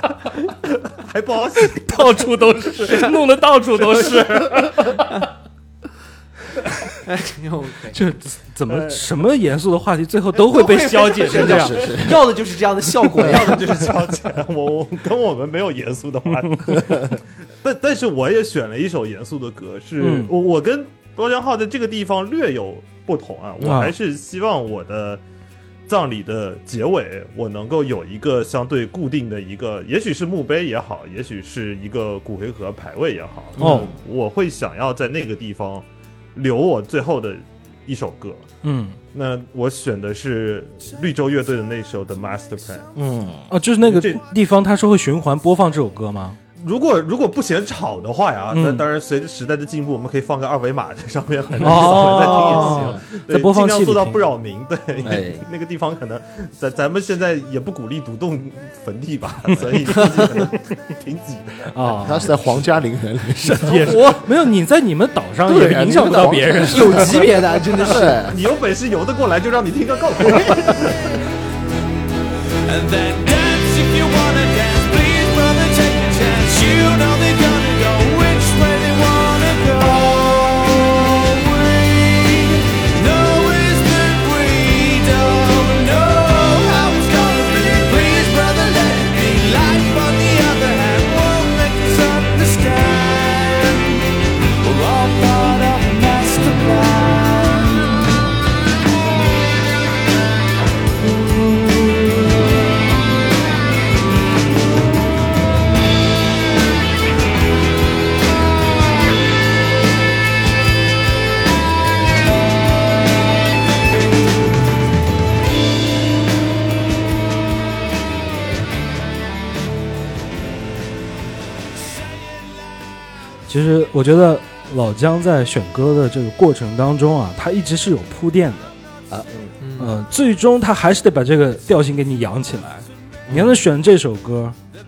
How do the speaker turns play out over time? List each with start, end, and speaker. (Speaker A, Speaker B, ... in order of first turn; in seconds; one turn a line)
Speaker A: 0.9-3.1
Speaker B: 1.8-5.2
Speaker C: 7.0-8.0
Speaker B: 7.9-11.9
Speaker A: 8.7-9.0
Speaker C: 10.3-13.7
Speaker D: 11.3-12.3
Speaker A: 13.2-25.2
Speaker B: 20.0-20.3
Speaker B: 23.6-23.9
Speaker A: 25.9-38.5
Speaker D: 33.6-33.9
Speaker B: 33.6-33.9
Speaker B: 38.6-39.0
Speaker A: 39.1-42.9
Speaker D: 42.9-43.5
Speaker B: 43.5-46.4
Speaker A: 43.8-44.2
Speaker A: 46.6-62.0
Speaker B: 48.5-48.9
Speaker B: 51.6-54.3
Speaker D: 51.7-52.1
Speaker C: 52.2-52.8
Speaker D: 52.6-53.0
Speaker D: 55.0-55.5
Speaker B: 59.5-59.9
Speaker C: 59.9-60.3
Speaker B: 61.7-62.3
Speaker D: 62.0-64.0
Speaker B: 63.4-67.3
Speaker C: 63.7-64.2
Speaker D: 65.4-68.4
Speaker C: 66.6-68.3
Speaker A: 68.2-71.2
Speaker E: 72.6-98.2
Speaker B: 123.5-128.7
Speaker C: 129.6-130.0
Speaker B: 129.8-134.6
Speaker D: 133.3-133.6